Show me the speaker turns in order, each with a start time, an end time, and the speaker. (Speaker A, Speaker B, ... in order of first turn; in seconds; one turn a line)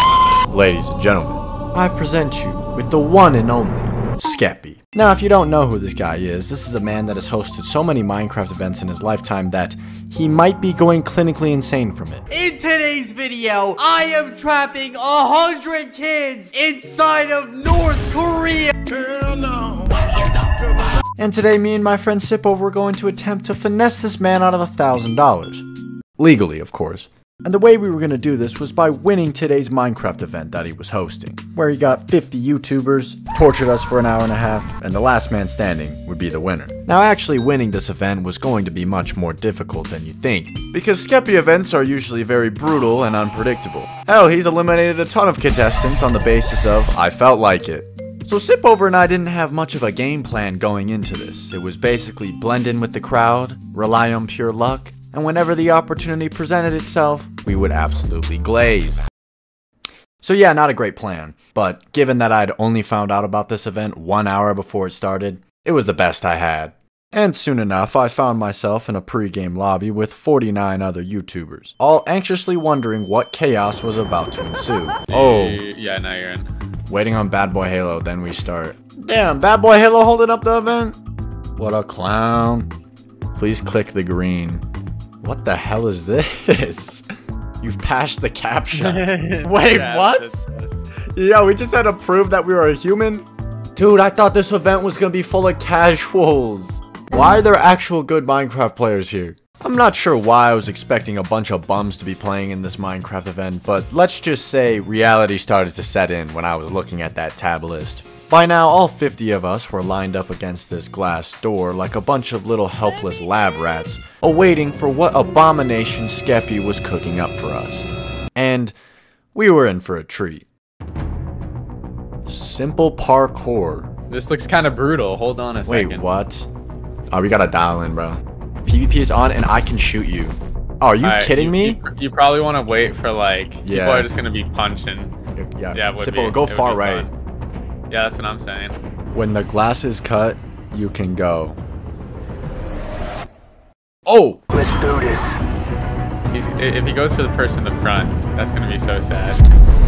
Speaker A: 0.5-12.3
Speaker B: 12.3-21.0
Speaker A: 21.2-25.6
Speaker A: 26.2-59.0
Speaker A: 60.2-75.6
Speaker C: 75.1-76.5
Speaker A: 76.9-81.0
Speaker A: 81.6-82.7
Speaker A: 83.3-84.6
Speaker A: 85.2-87.0
Speaker A: 87.6-90.3
Speaker C: 88.7-90.8
Speaker A: 91.1-118.7
Speaker A: 119.3-120.5
Speaker A: 122.3-123.9
Speaker C: 124.1-126.0
Speaker A: 125.7-126.5
Speaker A: 127.1-131.8
Speaker C: 131.0-135.1
Speaker A: 133.7-134.1
Speaker A: 135.3-137.1
Speaker C: 135.7-137.1
Speaker C: 137.9-138.8
Speaker A: 139.1-141.6
Speaker A: 144.1-144.4
Speaker C: 146.3-149.4